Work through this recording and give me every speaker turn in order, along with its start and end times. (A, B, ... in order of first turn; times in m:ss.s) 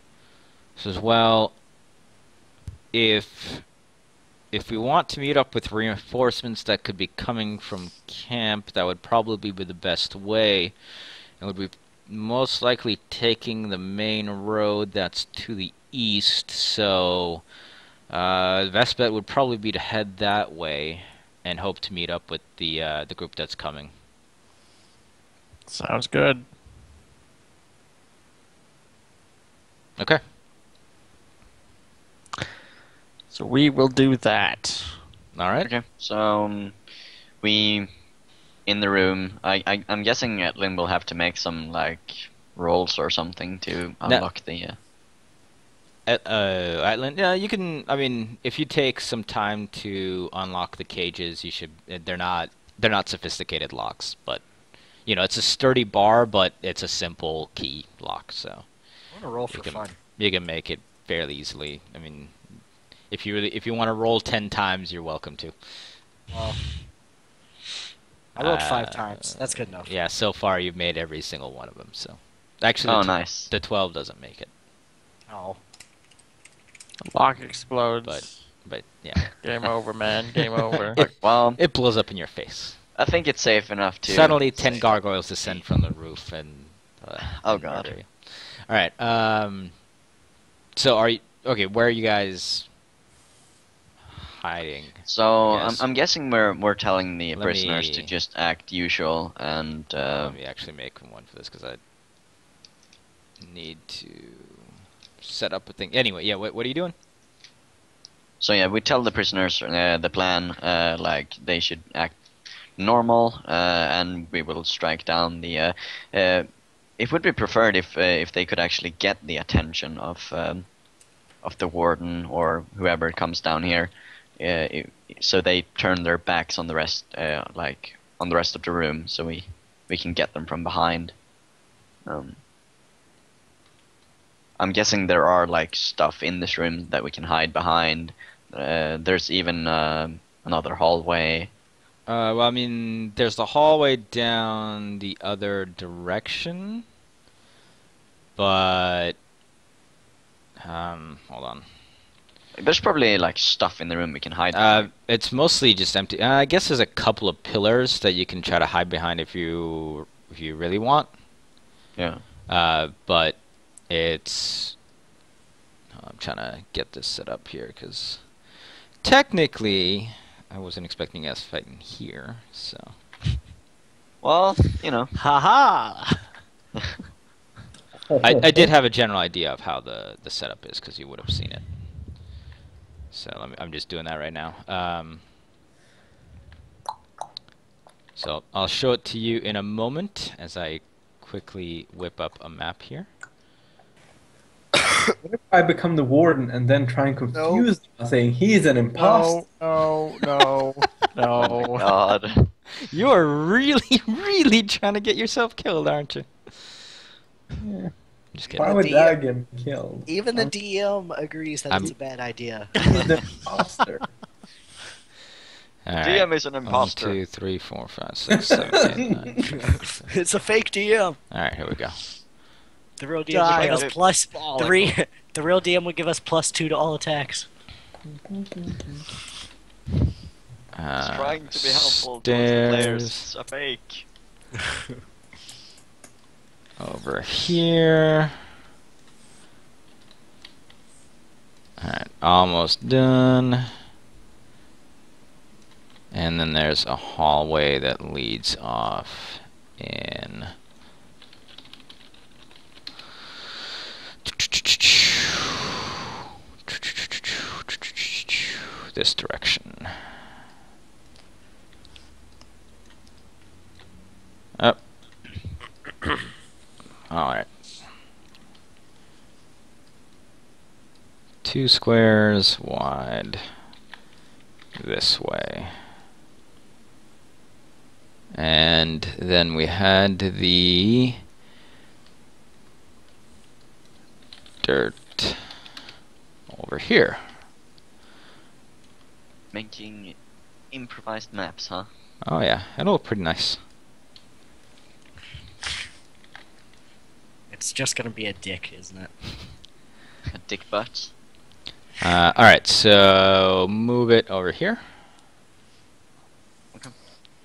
0:00.8-0:01.6 A
0:02.9-0:03.7 A
0:04.5-0:10.7 A
0:11.4-0:17.4 A
0:18.1-0:23.9 A
0:25.7-0:26.5 B
0:33.3-0:35.0 B
0:35.4-0:35.7 A
0:35.6-0:36.8 C
0:37.4-0:37.9 C
0:38.7-0:44.8 C
0:46.1-0:54.4 A
0:55.1-0:58.7 A
0:59.1-1:00.0 D
0:59.5-1:06.0 A
1:06.3-1:06.6 D
1:08.4-1:09.9 D
1:08.4-1:14.5 A
1:12.8-1:13.5 C
1:15.3-1:15.6 D
1:17.1-1:18.5 B
1:18.0-1:19.4 A
1:19.4-1:21.0 B
1:20.9-1:22.8 A
1:21.0-1:21.6 C
1:23.0-1:25.7 C
1:24.1-1:29.7 A
1:27.2-1:27.9 C
1:30.8-1:32.7 A
1:34.1-1:35.9 A
1:35.1-1:40.4 C
1:37.4-1:38.1 A
1:40.0-1:41.8 A
1:43.4-1:44.7 A
1:45.2-1:46.9 A
1:48.4-1:52.2 C
1:52.8-1:56.5 C
1:57.0-2:00.7 C
2:01.4-2:11.2 C
2:12.1-2:12.4 C
2:14.6-2:21.5 C
2:22.1-2:26.8 A
2:28.4-2:29.2 A
2:30.6-2:31.6 A
2:32.6-2:34.9 C
2:34.5-2:41.1 A
2:42.0-2:42.2 C
2:42.5-2:44.8 A
2:46.0-2:48.3 A
2:49.0-2:53.0 A
2:54.2-2:55.1 C
2:55.2-2:56.3 A
2:58.1-2:58.7 E
2:58.2-3:01.7 A
3:03.1-3:05.2 A
3:08.2-3:13.1 A
3:15.2-3:19.4 E
3:17.3-3:17.7 D
3:19.0-3:21.9 B
3:21.4-3:22.5 C
3:22.8-3:26.3 A
3:27.6-3:27.9 E
3:28.3-3:28.7 A
3:28.5-3:29.2 D
3:28.6-3:30.5 E
3:30.1-3:33.0 D
3:32.9-3:34.1 E
3:35.9-3:40.0 A
3:36.0-3:37.2 C
3:40.0-3:41.2 D
3:41.3-3:42.1 A
3:43.0-3:47.5 D
3:43.3-3:43.9 B
3:43.5-3:44.0 C
3:44.6-3:44.9 B
3:48.1-3:49.1 E
3:50.8-3:53.3 A
3:51.0-3:54.1 C
3:56.8-3:58.3 A
4:01.8-4:03.7 A
4:06.1-4:10.5 A
4:14.3-4:15.4 A
4:16.7-4:19.9 A
4:27.1-4:27.5 A
4:31.4-4:33.4 A
4:34.8-4:35.8 A
4:38.3-4:41.2 A
4:44.6-4:45.4 A
4:46.5-4:47.2 A
4:49.5-4:50.2 C
4:50.7-4:51.9 C
4:52.2-4:53.6 A
4:57.5-4:59.2 D
5:00.3-5:01.1 C
5:02.0-5:04.8 A